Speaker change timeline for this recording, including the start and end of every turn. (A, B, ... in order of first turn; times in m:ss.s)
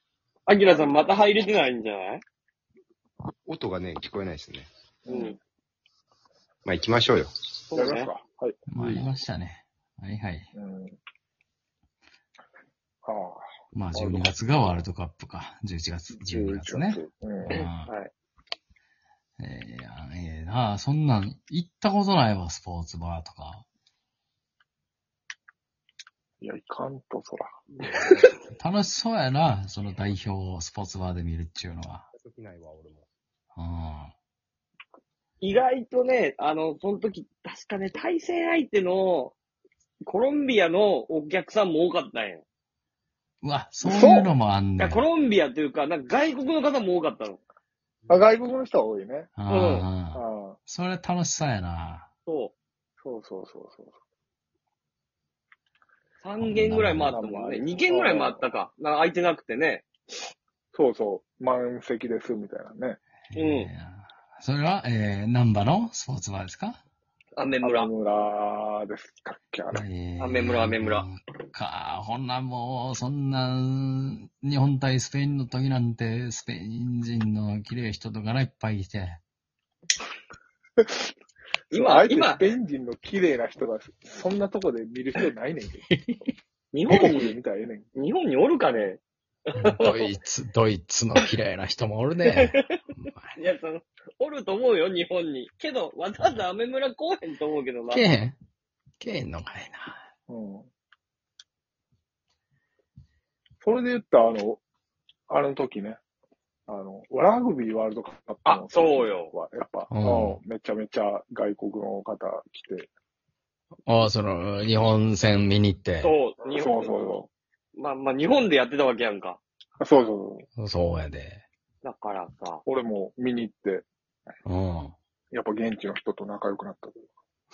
0:00.5-0:02.2 A
0:03.4-0:04.7 B
0:05.0-0:05.4 C
0:05.1-0:05.3 A
0:06.6-0:07.3 B
0:07.7-0:08.1 A
0:07.8-0:08.6 C
0:08.7-0:10.5 D
0:08.8-0:09.1 B
0:10.5-0:11.0 C
0:13.0-0:13.4 C
0:13.7-0:17.9 D
0:13.9-0:14.3 C
0:16.3-0:17.6 C
0:17.8-0:18.1 A
0:19.4-0:23.6 D
0:26.4-0:27.5 C
0:27.7-0:28.3 A
0:27.8-0:28.4 B
0:28.6-0:32.1 D
0:32.1-0:33.1 B
0:33.6-0:34.1 D
0:35.4-0:39.3 A
0:40.0-0:42.4 A
0:43.4-0:45.0 D
0:43.8-0:44.3 C
0:44.8-0:47.4 A
0:48.1-0:49.3 C
0:49.4-0:52.1 D
0:49.5-0:49.9 A
0:50.1-0:50.6 C
0:52.3-0:52.5 A
0:53.0-0:53.9 C
0:56.2-0:59.8 A
0:56.4-0:57.2 D
0:57.1-0:58.5 C
1:00.7-1:03.0 C
1:03.3-1:06.8 D
1:03.3-1:03.7 A
1:07.4-1:07.9 A
1:07.6-1:09.8 C
1:09.7-1:19.2 D
1:10.2-1:11.0 A
1:20.8-1:21.1 C
1:21.7-1:22.5 A
1:21.7-1:25.9 C
1:26.7-1:27.3 A
1:26.9-1:27.8 C
1:28.0-1:29.0 A
1:29.5-1:30.1 A
1:29.6-1:33.4 D
1:32.3-1:32.6 A
1:33.4-1:38.1 A
1:37.9-1:38.4 D
1:39.0-1:40.0 D
1:40.3-1:40.7 C
1:43.6-1:44.6 C
1:45.3-1:46.0 C
1:46.7-1:52.9 C
1:48.4-1:49.3 A
1:49.9-1:50.4 D
1:53.9-1:56.1 D
1:56.0-1:57.1 A
1:56.5-1:57.3 C
1:57.8-1:59.4 A
1:59.8-2:00.4 C
2:00.6-2:01.4 D
2:01.8-2:02.6 A
2:02.6-2:03.8 C
2:04.4-2:04.9 D
2:05.3-2:07.0 C